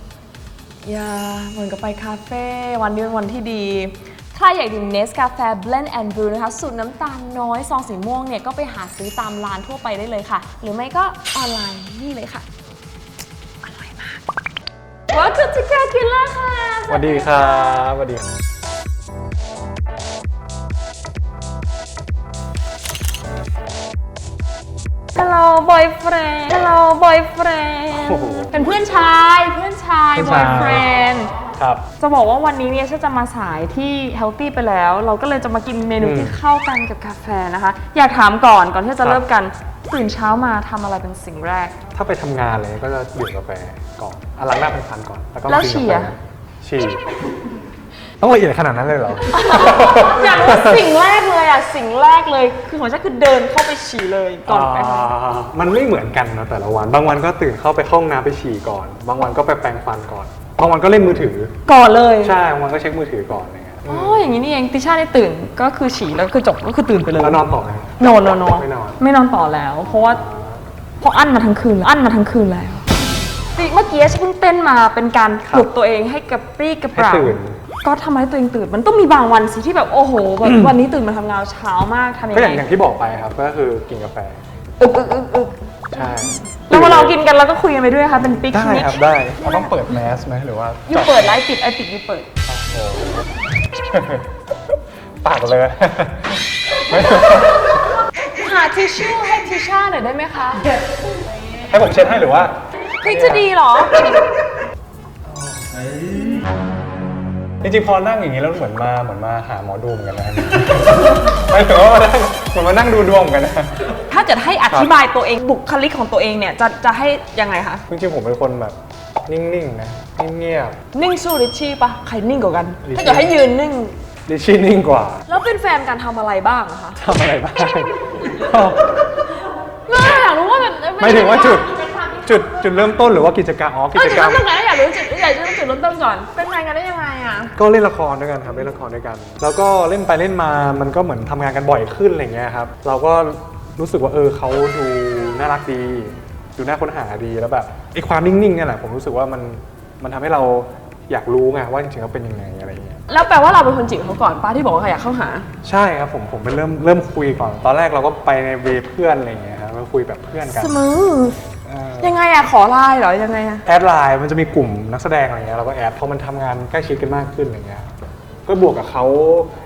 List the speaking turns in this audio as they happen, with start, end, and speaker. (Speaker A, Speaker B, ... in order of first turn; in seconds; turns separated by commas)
Speaker A: 0.8-12.4, Speaker A: 13.6-14.2, Speaker A: 15.1-17.9, Speaker B: 16.9-18.3, Speaker A: 25.1-31.4, Speaker B: 27.9-28.5, Speaker B: 30.1-30.9, Speaker B: 31.5-31.8, Speaker A: 32.0-41.8, Speaker B: 36.0-36.4, Speaker B: 41.9-47.0, Speaker A: 45.5-46.1, Speaker B: 48.2-50.8, Speaker A: 49.3-55.1, Speaker B: 54.5-61.5, Speaker A: 61.6-62.3, Speaker B: 62.2-64.2, Speaker A: 63.9-67.4, Speaker B: 67.2-69.0, Speaker A: 68.0-70.2, Speaker B: 69.8-70.6, Speaker A: 71.0-72.8, Speaker A: 73.5-82.6, Speaker B: 75.4-75.7, Speaker B: 76.9-77.6, Speaker B: 80.4-80.7, Speaker B: 82.3-84.4, Speaker A: 84.8-86.1, Speaker B: 85.9-87.2, Speaker A: 86.7-89.7, Speaker B: 88.5-91.4, Speaker A: 90.9-92.3, Speaker B: 92.5-94.3, Speaker B: 95.2-97.8, Speaker A: 98.3-100.7, Speaker B: 101.7-103.5, Speaker A: 102.9-104.1, Speaker B: 107.6-113.9, Speaker A: 114.0-117.8, Speaker B: 117.9-120.8, Speaker A: 120.9-124.0, Speaker B: 122.8-123.3, Speaker B: 124.3-125.2, Speaker A: 125.3-127.0, Speaker B: 127.0-128.8, Speaker A: 129.9-132.5, Speaker B: 131.0-131.7, Speaker B: 132.2-134.4, Speaker A: 133.9-137.5, Speaker B: 137.6-153.0, Speaker A: 153.1-155.4, Speaker B: 155.6-160.8, Speaker A: 160.5-161.4, Speaker B: 161.6-162.2, Speaker A: 162.0-163.6, Speaker B: 163.7-167.9, Speaker B: 168.4-169.5